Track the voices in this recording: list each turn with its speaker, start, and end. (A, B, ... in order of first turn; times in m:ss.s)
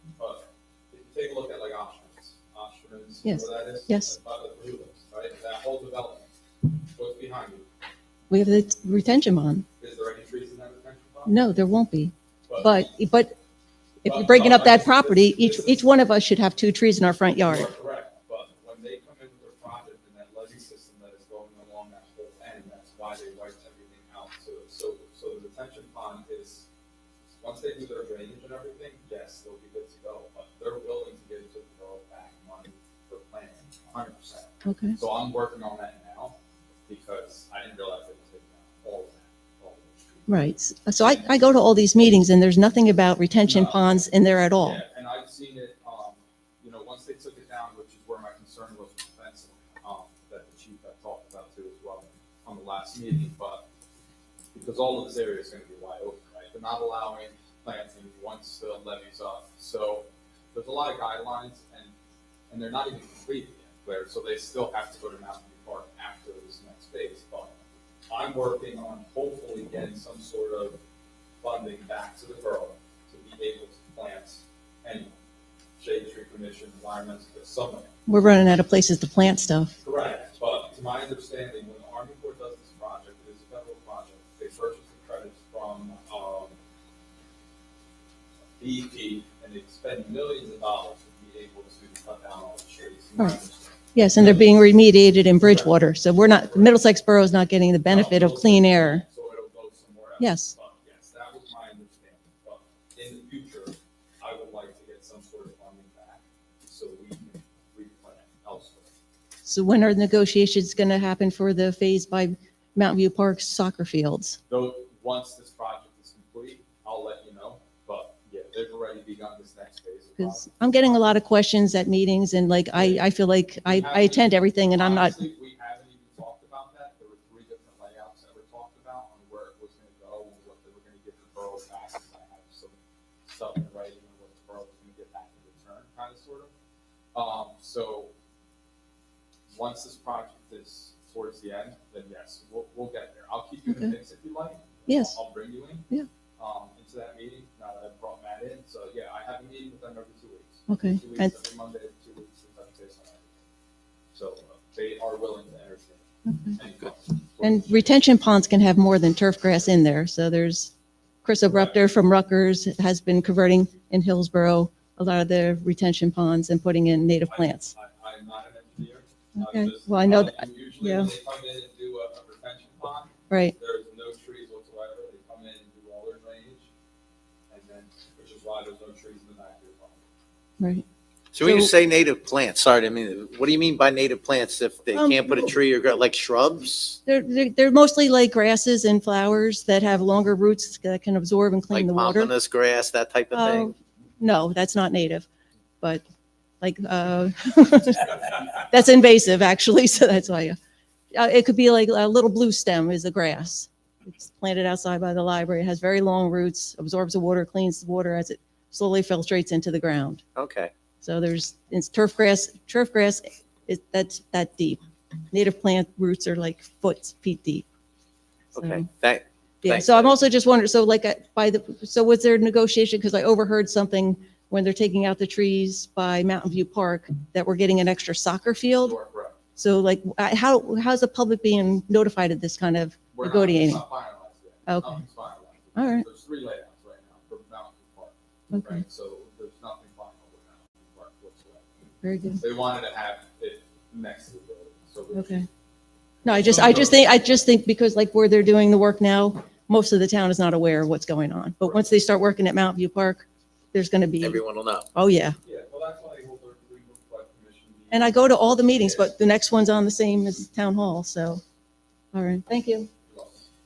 0:00.2-0:06.3 A
0:03.2-0:04.1 B
0:06.9-0:07.7 A
0:08.3-0:09.6 B
0:09.8-0:11.4 A
0:11.3-0:13.4 B
0:12.5-0:12.9 A
0:14.0-0:17.7 B
0:14.0-0:15.8 A
0:17.4-0:26.7 A
0:27.4-0:36.4 A
0:34.7-0:35.0 B
0:36.9-0:41.3 A
0:40.3-0:44.8 B
0:43.5-0:44.0 A
0:44.6-0:53.7 A
0:54.5-1:01.9 A
1:02.5-1:07.6 A
1:08.1-1:10.8 A
1:11.4-1:15.1 A
1:15.8-1:17.9 A
1:18.1-1:19.7 B
1:19.8-1:26.6 A
1:28.6-1:34.5 A
1:33.9-1:39.0 B
1:35.4-1:36.8 A
1:37.9-1:48.9 A
1:40.2-1:40.5 B
1:49.4-1:54.4 B
1:54.5-2:00.6 A
2:00.2-2:05.2 B
2:02.8-2:03.1 A
2:03.6-2:16.5 A
2:17.1-2:18.1 A
2:19.5-2:25.8 A
2:23.7-2:23.9 B
2:24.9-2:25.2 B
2:26.4-2:33.4 A
2:30.7-2:31.3 B
2:34.1-2:37.9 A
2:36.2-2:36.6 B
2:37.4-2:40.7 B
2:41.2-2:47.7 B
2:41.5-2:41.8 A
2:47.3-2:56.7 A
2:49.4-2:51.1 B
2:53.3-2:53.5 B
2:57.5-3:00.0 A
3:00.6-3:00.8 B
3:01.3-3:07.0 C
3:01.4-3:01.7 B
3:04.9-3:05.5 B
3:07.1-3:12.3 B
3:11.7-3:13.7 C
3:13.3-3:15.3 B
3:16.6-3:20.6 B
3:21.2-3:30.2 B
3:30.4-3:30.7 C
3:31.0-3:34.8 B
3:35.3-3:37.6 B
3:38.5-3:40.1 C
3:38.6-3:38.9 B
3:39.6-3:49.0 B
3:48.8-3:49.4 A
3:49.6-3:53.9 B
3:53.1-4:01.7 A
3:54.7-3:55.0 B
3:55.8-3:56.1 B
3:58.5-3:58.8 B
4:02.0-4:02.4 B
4:02.4-4:05.5 A
4:05.1-4:05.4 B
4:06.2-4:14.4 B
4:06.3-4:07.0 A
4:11.6-4:11.9 A
4:14.2-4:14.9 C
4:14.9-4:15.4 B
4:15.4-4:19.1 A
4:17.9-4:21.4 B
4:22.1-4:22.9 B
4:23.1-4:23.4 A